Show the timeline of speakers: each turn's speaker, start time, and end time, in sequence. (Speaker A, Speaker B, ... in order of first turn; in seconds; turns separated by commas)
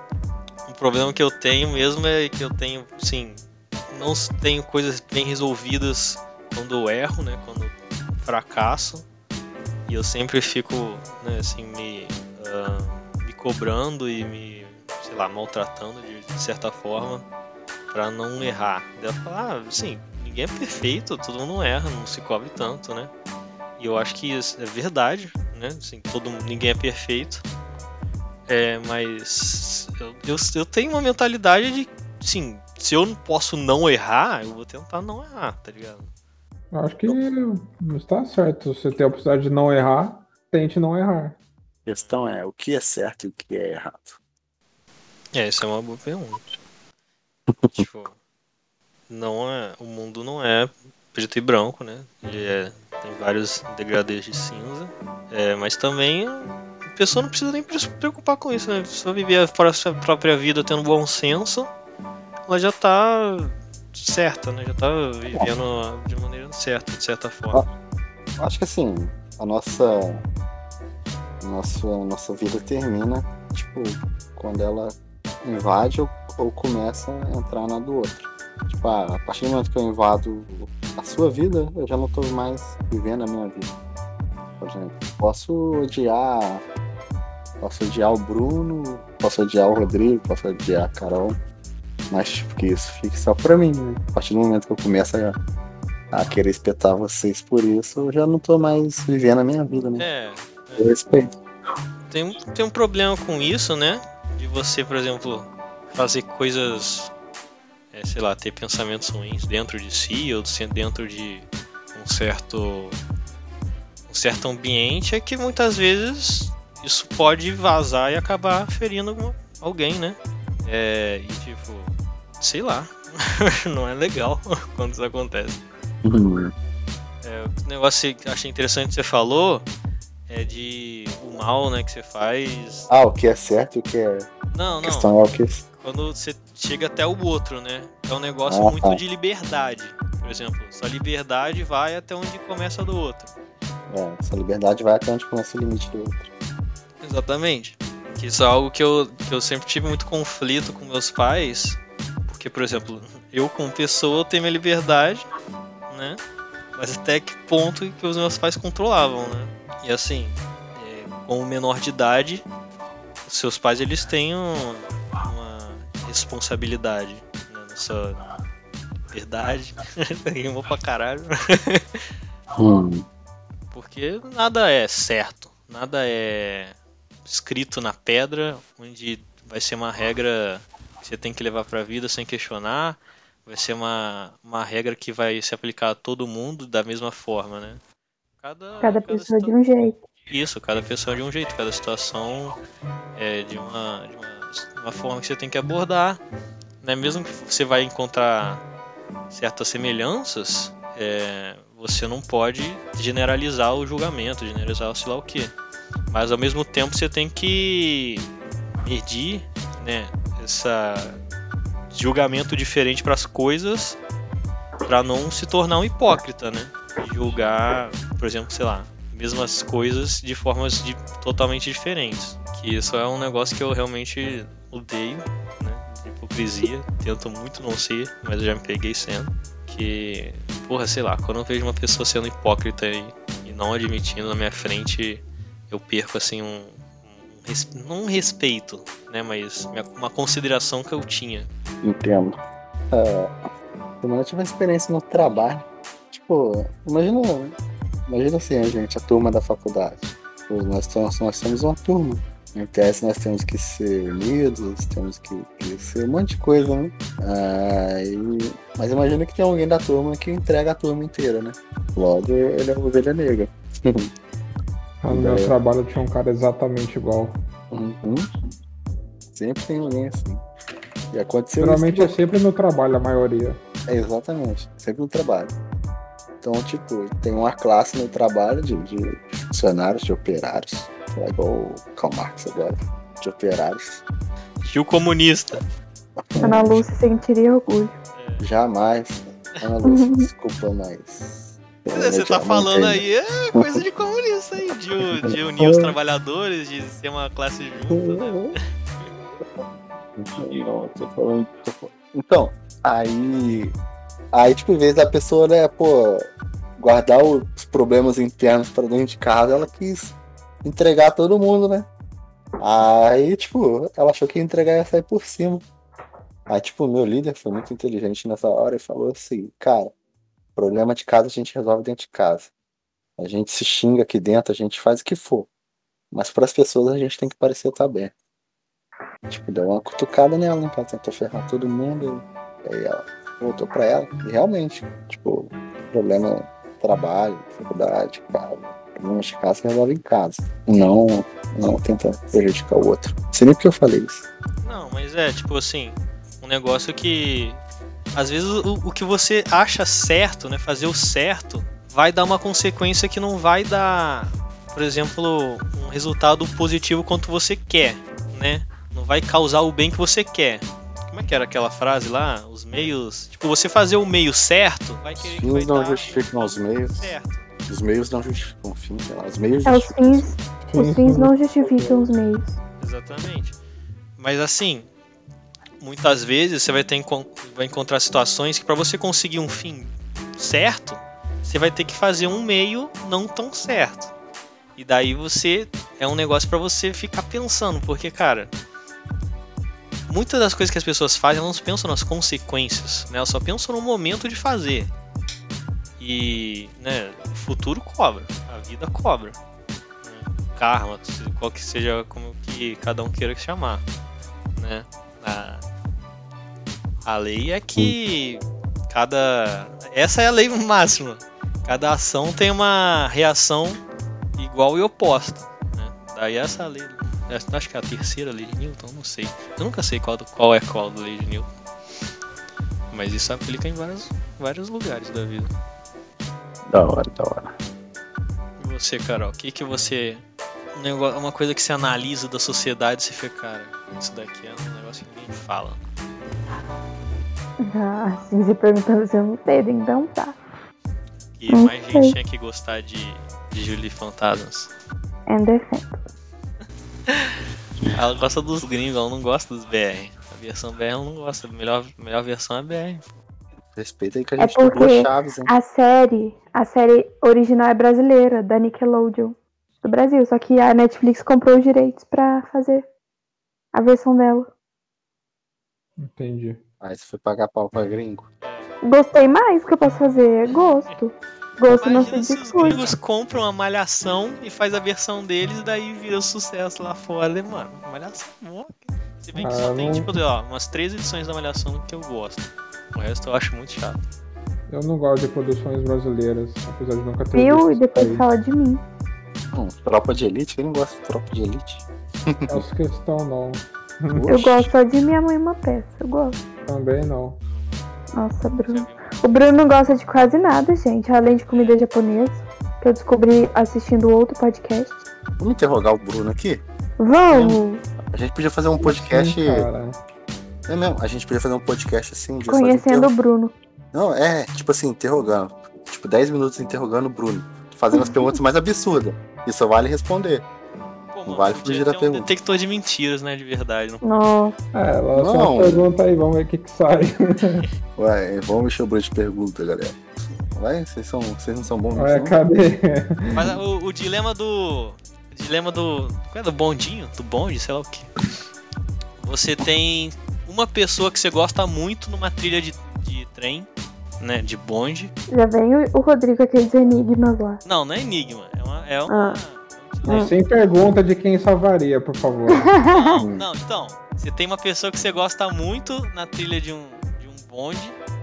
Speaker A: 0.7-9.1, Speaker A: 9.9-17.2, Speaker A: 17.9-23.1, Speaker A: 23.8-27.4, Speaker A: 28.5-36.1, Speaker B: 36.7-41.4, Speaker C: 41.9-44.2, Speaker A: 45.3-46.4, Speaker C: 47.5-47.8, Speaker A: 47.7-48.2, Speaker A: 49.1-61.7, Speaker A: 62.5-67.6, Speaker C: 68.4-70.2, Speaker C: 71.4-83.7, Speaker C: 84.6-86.6, Speaker C: 87.6-91.4, Speaker C: 92.1-95.4, Speaker C: 96.1-100.1, Speaker A: 100.0-100.8, Speaker C: 100.8-101.3, Speaker A: 102.1-107.1, Speaker A: 107.9-113.0, Speaker A: 114.1-125.6, Speaker C: 126.0-126.5, Speaker A: 127.2-129.7, Speaker A: 130.3-132.9, Speaker C: 132.9-134.3, Speaker A: 134.5-135.1, Speaker C: 134.8-135.6, Speaker A: 135.8-143.3, Speaker C: 138.5-139.0, Speaker C: 143.9-146.3, Speaker A: 147.0-155.3, Speaker A: 155.9-156.2, Speaker A: 156.8-162.4, Speaker A: 163.2-168.2, Speaker A: 169.1-172.0, Speaker C: 172.6-173.0, Speaker A: 173.7-187.8, Speaker A: 188.4-189.5, Speaker D: 188.8-190.0, Speaker A: 190.3-192.6, Speaker A: 193.2-196.2, Speaker A: 196.8-198.6, Speaker A: 199.3-205.5, Speaker A: 206.1-208.3, Speaker A: 208.8-211.2, Speaker A: 211.9-214.0, Speaker A: 214.8-241.5, Speaker C: 241.8-242.4, Speaker C: 242.9-243.3, Speaker C: 244.0-247.5, Speaker C: 248.1-264.1, Speaker B: 265.0-267.4, Speaker C: 265.1-265.5, Speaker C: 267.7-268.2, Speaker C: 269.3-270.4, Speaker C: 271.1-272.1, Speaker B: 271.6-273.6, Speaker C: 273.9-275.5, Speaker C: 276.4-284.0, Speaker A: 284.6-285.6, Speaker C: 286.2-286.9, Speaker D: 286.4-287.9, Speaker A: 288.1-288.4, Speaker C: 288.4-293.0, Speaker D: 289.8-290.3, Speaker A: 291.9-298.6, Speaker C: 293.5-293.8, Speaker C: 295.2-295.9, Speaker C: 297.9-298.5, Speaker C: 300.2-303.8, Speaker C: 304.3-311.9, Speaker C: 312.6-315.6, Speaker C: 316.5-319.9, Speaker C: 320.6-322.5, Speaker C: 323.2-325.5, Speaker C: 326.1-328.1, Speaker C: 329.3-344.2, Speaker A: 344.6-347.6, Speaker A: 348.1-367.5, Speaker C: 365.2-367.1, Speaker C: 367.7-370.3, Speaker D: 369.6-372.6, Speaker B: 370.6-372.1, Speaker A: 372.8-373.6, Speaker A: 374.2-374.9, Speaker A: 375.8-384.1, Speaker A: 384.8-388.5, Speaker A: 390.1-394.9, Speaker A: 396.0-399.4, Speaker A: 400.0-403.8, Speaker A: 404.6-405.6, Speaker A: 407.0-413.8, Speaker A: 414.4-421.5, Speaker A: 422.9-425.5, Speaker C: 426.7-427.5, Speaker A: 428.6-430.2, Speaker A: 430.7-435.8, Speaker D: 437.6-440.4, Speaker A: 441.4-444.7, Speaker D: 441.5-442.1, Speaker D: 445.3-446.0, Speaker A: 447.1-447.3, Speaker A: 447.9-453.1, Speaker C: 453.7-455.5, Speaker D: 454.4-462.9, Speaker D: 463.7-464.5, Speaker B: 466.0-466.6, Speaker C: 466.8-468.2, Speaker A: 468.4-468.7, Speaker D: 468.8-472.9, Speaker A: 471.7-484.0, Speaker B: 479.4-480.1, Speaker B: 484.7-488.2, Speaker D: 487.3-488.8, Speaker C: 489.5-492.6, Speaker B: 492.5-494.3, Speaker C: 494.1-494.7, Speaker D: 494.3-496.4, Speaker B: 496.6-497.4, Speaker D: 498.1-505.0, Speaker A: 498.7-499.1, Speaker A: 501.5-501.7, Speaker C: 505.4-506.6, Speaker D: 507.0-507.8, Speaker C: 507.3-509.7, Speaker B: 508.8-510.0, Speaker C: 510.7-513.1, Speaker D: 512.5-513.5, Speaker C: 513.9-520.5, Speaker D: 517.9-518.3, Speaker A: 521.1-524.0, Speaker C: 521.2-522.3, Speaker D: 524.0-524.5, Speaker B: 524.7-527.7, Speaker C: 525.1-525.9, Speaker C: 528.0-530.0, Speaker C: 530.5-532.4, Speaker B: 531.9-533.5, Speaker A: 533.3-538.1, Speaker A: 539.2-543.7, Speaker A: 544.2-545.1, Speaker D: 545.3-547.6, Speaker A: 547.6-550.3, Speaker D: 549.1-549.4, Speaker B: 550.0-552.8, Speaker D: 550.1-550.3, Speaker D: 552.5-553.2, Speaker A: 552.9-558.0, Speaker C: 553.2-553.5